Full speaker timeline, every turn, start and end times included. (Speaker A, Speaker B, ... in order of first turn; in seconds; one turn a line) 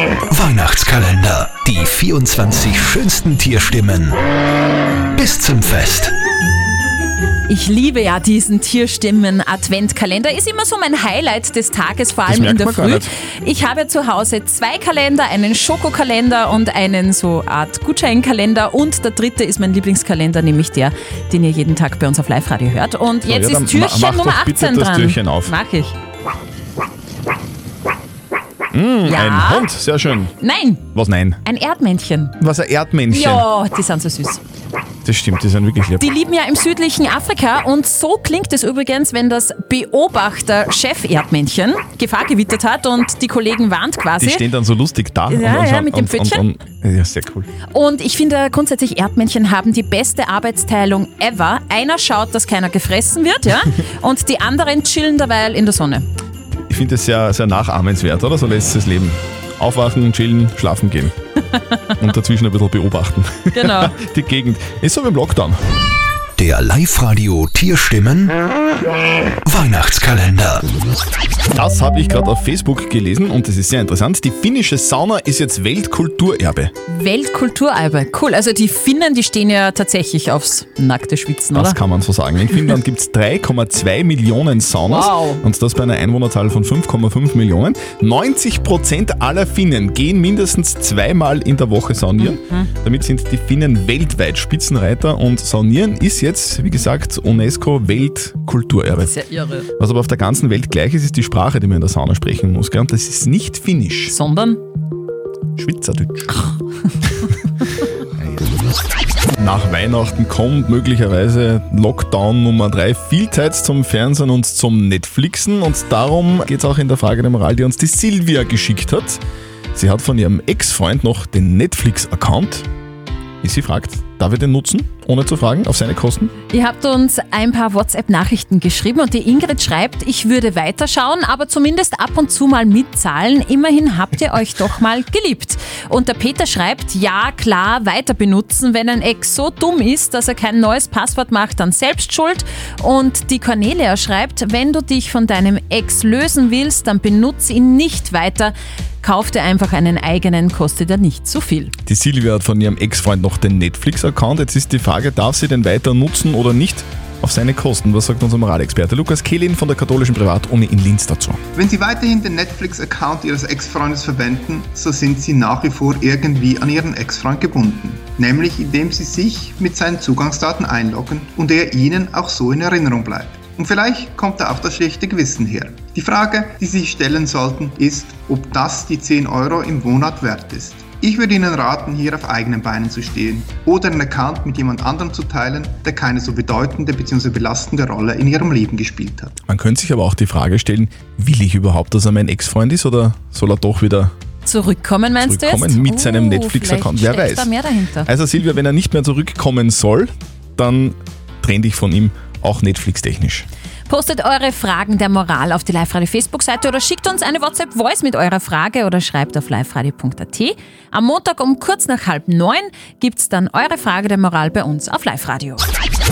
Speaker A: 0.3-4.2
Speaker A: 5.1-6.2
Speaker B: 7.5-25.9
Speaker C: 12.3-13.1
Speaker C: 23.2-25.5
Speaker C: 28.7-30.3
Speaker B: 29.1-29.7
Speaker B: 30.4-30.8
Speaker C: 30.9-31.4
Speaker B: 31.4-32.4
Speaker C: 32.4-33.5
Speaker B: 33.1-34.4
Speaker C: 35.0-36.1
Speaker B: 36.0-44.5
Speaker C: 44.2-47.5
Speaker B: 45.3-46.4
Speaker B: 47.7-56.1
Speaker C: 56.7-61.1
Speaker C: 62.0-65.6
Speaker B: 63.5-64.0
Speaker A: 66.4-68.4
Speaker A: 69.5-70.7
Speaker C: 71.5-76.7
Speaker B: 76.9-81.8
Speaker C: 81.5-99.1
Speaker B: 84.9-85.4
Speaker B: 92.2-92.7
Speaker B: 99.0-99.7
Speaker C: 99.8-104.2
Speaker B: 104.1-104.6
Speaker C: 105.6-106.4
Speaker C: 108.2-108.5
Speaker C: 109.4-119.2
Speaker C: 119.8-122.7
Speaker C: 123.4-126.3
Speaker B: 126.5-151.7
Speaker C: 151.9-161.4
Speaker D: 161.6-189.4
Speaker C: 189.5-194.1
Speaker B: 194.4-198.1
Speaker C: 195.2-197.5
Speaker C: 198.1-203.5
Speaker B: 203.9-215.7